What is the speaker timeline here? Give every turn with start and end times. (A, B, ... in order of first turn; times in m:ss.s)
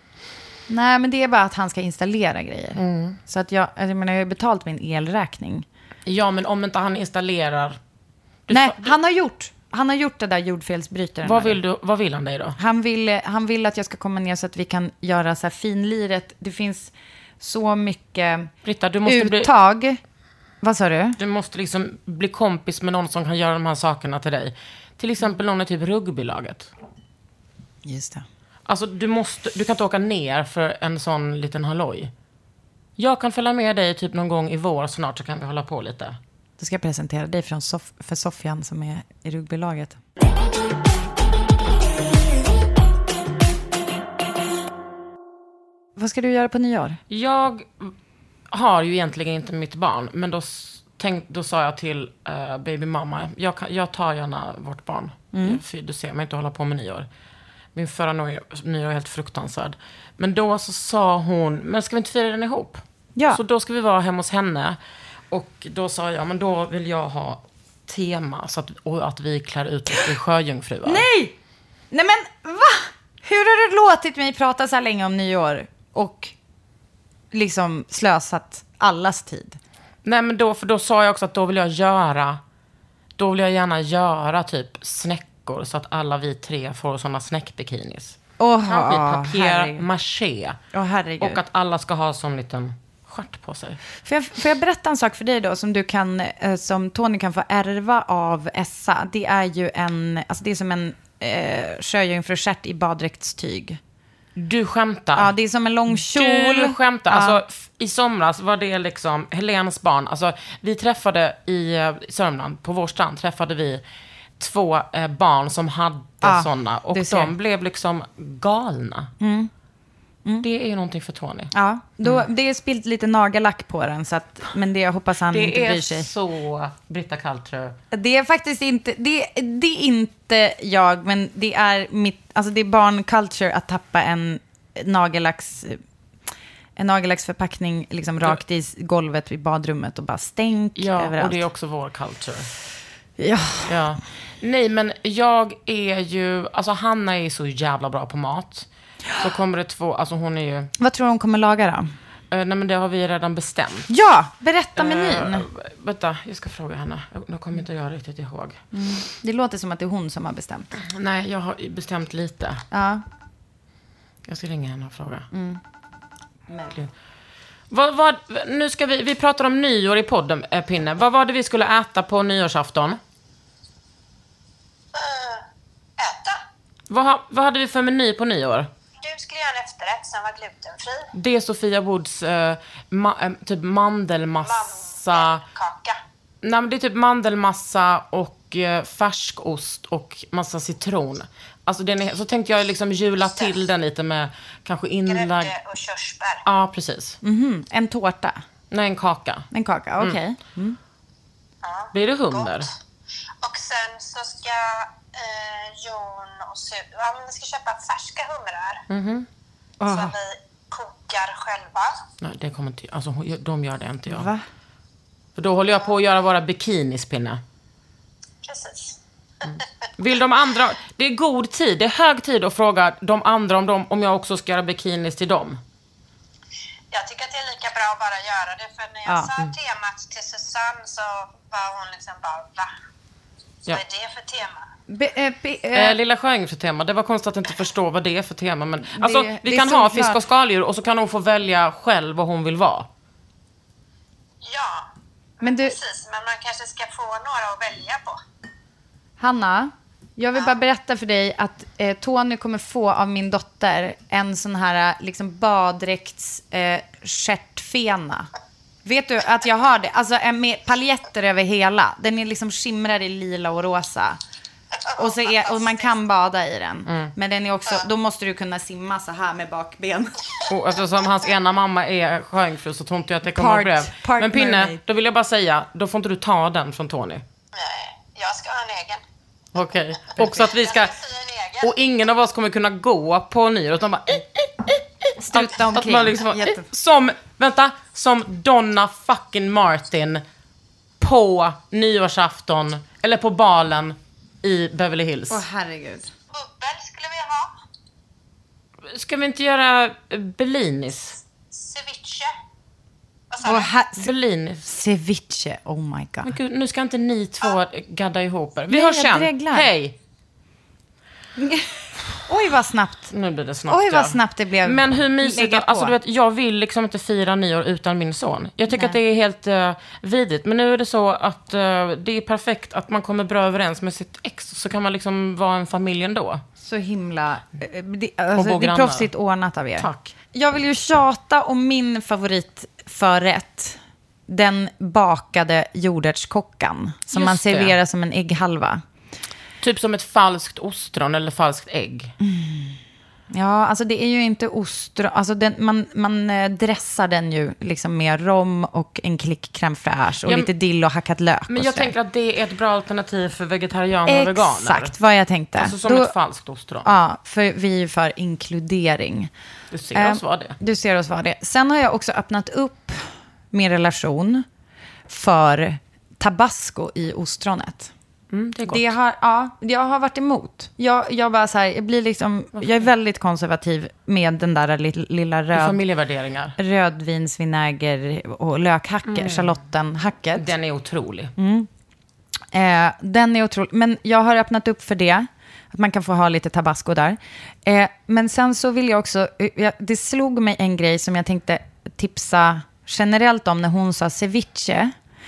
0:00.7-0:05.6 A
0:02.8-0:03.2 B
0:06.0-0:07.8 B
0:08.5-0:08.9 B
0:08.5-0:11.6 A
0:11.2-0:12.6 B
0:12.6-0:18.5 A
0:18.6-0:19.5 B
0:19.0-0:20.0 A
0:20.6-0:21.2 A
0:21.2-0:26.7 B
0:27.8-0:28.2 A
0:28.7-0:32.1 B
0:33.0-0:36.2 B
0:36.6-0:40.0 A
0:46.0-0:47.0 A
0:47.1-0:47.9 B
0:48.5-0:57.1 B
0:55.3-0:55.6 A
0:57.7-1:04.8 B
1:03.2-1:03.4 A
1:05.3-1:11.0 B
1:10.8-1:11.4 A
1:11.9-1:16.3 A
1:17.3-1:19.6 A
1:20.0-1:22.4 B
1:23.2-1:30.6 B
1:28.4-1:29.8 A
1:30.7-1:31.4 A
1:31.2-1:33.8 B
1:34.0-1:43.8 A
1:44.4-1:45.3 B
1:45.2-1:47.4 A
1:45.9-1:53.8 B
1:54.4-1:59.1 B
1:56.2-1:57.3 A
1:59.2-1:59.5 A
2:00.4-2:01.5 B
2:01.5-2:06.1 A
2:05.3-2:07.8 B
2:07.9-2:15.8 A
2:16.8-2:21.4 A
2:20.8-2:22.5 B
2:23.2-2:23.8 A
2:23.7-2:30.7 B
2:30.8-2:31.9 A
2:32.3-2:33.9 B
2:33.9-2:35.5 A
2:34.8-2:38.6 B
2:38.7-2:40.7 A
2:40.8-2:42.6 B
2:42.7-2:43.0 A
2:44.3-2:45.3 B
2:45.3-2:45.6 A
2:46.5-2:46.8 A
2:47.7-2:53.0 B
2:54.9-2:55.4 C
2:56.0-2:56.4 C
2:56.9-2:58.7 B
2:59.0-3:01.1 C
3:01.1-3:05.4 B
3:04.4-3:06.0 C
3:06.4-3:15.5 B
3:13.2-3:13.6 C
3:15.1-3:16.4 C
3:16.4-3:17.2 B
3:17.2-3:18.4 A
3:18.7-3:19.5 B
3:19.5-3:20.8 A
3:21.6-3:22.7 C
3:21.9-3:22.7 B
3:23.4-3:28.8 C
3:28.9-3:29.3 B
3:29.8-3:30.1 A
3:29.8-3:32.0 C
3:32.2-3:34.3 B
3:34.1-3:34.4 A
3:35.4-3:37.4 B
3:38.4-3:39.6 C
3:39.5-3:45.6 B
3:46.9-3:52.7 C
3:53.7-3:54.6 C
3:54.9-3:56.0 A
3:55.7-4:02.9 B
3:58.9-4:00.2 A
4:04.4-4:04.9 C
4:05.4-4:05.8 A
4:05.4-4:08.2 C
4:09.2-4:18.3 A
4:18.8-4:24.2 A
4:24.9-4:25.9 C
4:25.0-4:30.2 A
4:26.9-4:27.1 B
4:30.5-4:37.2 B
4:33.3-4:34.8 A
4:37.5-4:39.0 C
4:39.5-4:41.0 B
4:40.4-4:41.7 C
4:41.6-4:50.2 B
4:45.2-4:46.7 A
4:51.0-4:55.4 B
4:55.3-4:56.1 A
4:56.3-4:57.5 C
4:58.9-5:01.2 B
5:01.5-5:02.3 C
5:03.3-5:03.7 C
5:03.4-5:04.1 A
5:04.0-5:04.6 B
5:04.6-5:06.3 A
5:06.2-5:10.0 B
5:08.7-5:09.7 A
5:11.4-5:11.7 A
5:12.2-5:13.1 A
5:13.1-5:26.4 B
5:13.7-5:15.9 A
5:18.7-5:19.0 A
5:26.6-5:38.8 A
5:28.4-5:29.1 B
5:29.8-5:30.1 B
5:37.1-5:37.8 B
5:39.6-5:42.1 B
5:42.2-5:42.8 A
5:43.3-5:51.9 A
5:50.2-5:50.5 B
5:51.5-5:54.9 B
5:54.1-5:56.1 A
5:55.6-5:56.9 B
5:56.8-5:59.3 A
5:59.7-6:00.6 B
5:59.9-6:04.4 A
6:05.1-6:07.9 A
6:08.3-6:08.9 B
6:08.7-6:15.8 A
6:12.6-6:12.9 B
6:15.5-6:16.6 B
6:16.6-6:20.5 A
6:19.1-6:19.6 B
6:20.4-6:21.3 B
6:21.4-6:21.7 A
6:22.5-6:34.9 A